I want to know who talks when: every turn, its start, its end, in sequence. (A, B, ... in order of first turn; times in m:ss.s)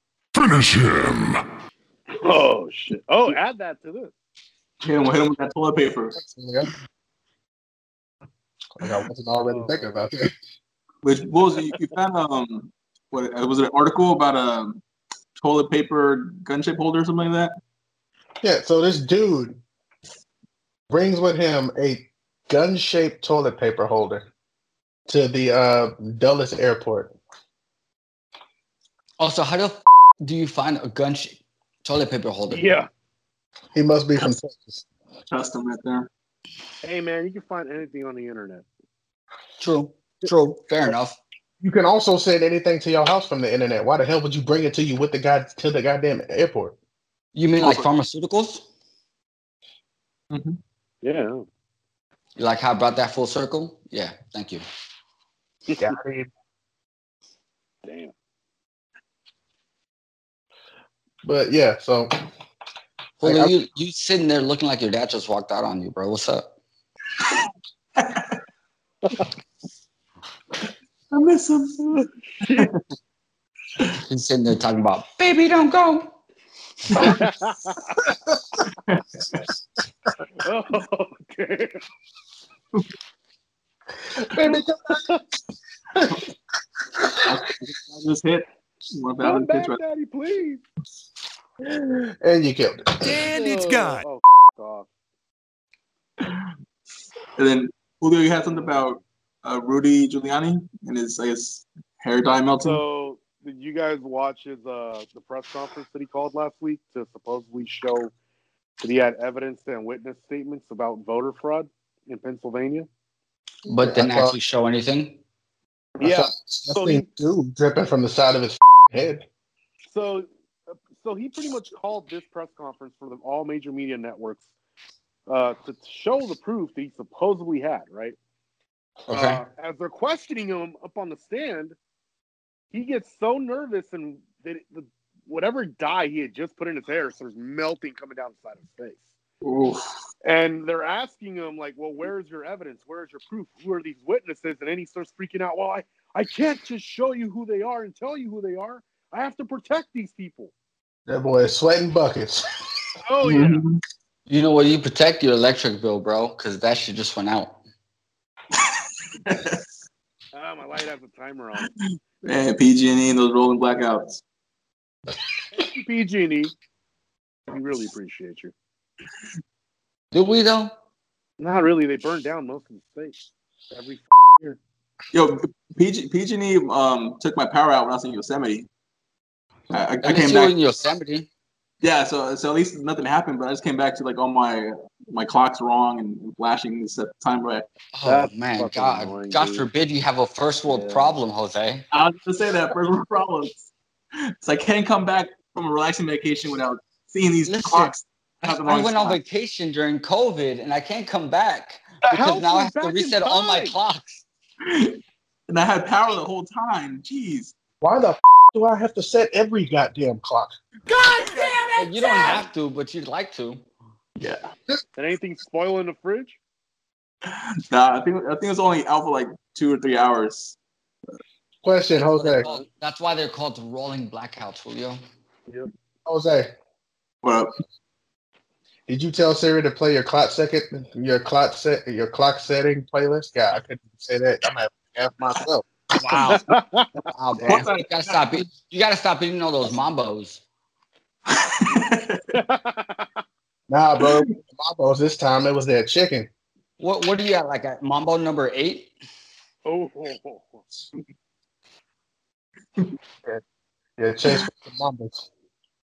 0:00.4-0:01.4 A
0:02.2-0:04.1 B
0:04.8-0:06.2 C
0:06.2-0:06.8 D
0:08.8-0:10.3 D
0:09.4-0:10.0 B
0:11.0-0:14.8 C
0:15.4-0:17.6 C
0:18.4-0:19.6 D
0:20.9-0:24.3 D
0:25.1-0:27.2 D
0:29.2-0:32.7 E
0:32.5-0:32.9 B
0:33.7-0:34.8 D
0:35.3-0:36.1 C
0:36.8-0:38.6 B
0:39.6-0:41.2 E
0:41.6-0:46.8 D
0:47.3-0:48.7 E
0:47.6-0:47.9 C
0:50.3-0:50.6 C
0:51.0-0:51.4 B
0:52.4-0:54.6 E
0:55.8-0:56.3 D
0:57.8-0:58.1 B
1:01.2-1:02.1 D
1:03.2-1:06.5 E
1:03.2-1:03.5 D
1:08.0-1:08.3 C
1:11.1-1:12.8 C
1:11.9-1:12.7 B
1:14.1-1:16.1 E
1:17.0-1:18.1 B
1:18.9-1:19.4 C
1:20.4-1:21.8 B
1:24.2-1:25.1 D
1:27.2-1:29.8 C
1:29.2-1:30.6 B
1:31.6-1:33.2 D
1:33.0-1:34.0 A
1:33.3-1:34.9 B
1:37.4-1:42.8 C
1:38.5-1:38.8 B
1:42.6-1:48.1 B
1:48.8-1:52.9 B
1:53.7-1:54.4 D
1:53.7-1:55.2 E
1:56.0-1:57.1 B
1:56.0-1:59.2 D
1:59.9-2:04.5 B
2:05.3-2:08.2 B
2:09.1-2:09.4 E
2:09.1-2:11.8 B
2:12.7-2:19.1 B
2:19.4-2:19.8 C
2:20.2-2:30.5 B
2:31.1-2:32.6 D
2:33.0-2:33.6 B
2:33.2-2:33.8 C
2:34.3-2:37.6 E
2:39.2-2:39.6 C
2:40.3-2:41.7 B
2:42.2-2:44.2 C
2:45.5-2:46.5 B
2:47.5-2:48.5 B
2:50.1-2:50.7 E
2:51.4-2:53.2 B
2:53.7-2:54.6 B
2:55.1-2:58.7 C
2:59.7-3:00.5 C
3:00.0-3:01.3 E
3:01.8-3:07.7 C
3:07.9-3:11.8 E
3:08.1-3:09.7 B
3:10.7-3:11.2 B
3:11.9-3:13.7 C
3:14.4-3:19.2 C
3:17.4-3:24.2 E
3:22.0-3:23.8 B
3:24.6-3:27.5 C
3:27.8-3:30.5 D
3:31.0-3:32.4 B
3:31.8-3:33.6 E
3:34.2-3:34.5 C
3:35.0-3:36.4 B
3:37.3-3:40.6 C
3:41.6-3:42.5 D
3:42.0-3:45.0 E
3:46.1-3:46.5 D
3:47.2-3:47.5 C
3:48.9-3:55.6 D
3:56.0-3:56.4 E
3:56.2-3:57.0 B
3:57.1-4:00.4 E
3:57.4-3:58.4 C
4:01.3-4:02.2 C
4:02.3-4:03.1 B
4:03.7-4:06.3 D
4:06.8-4:08.9 E
4:09.7-4:10.6 B
4:14.0-4:15.3 D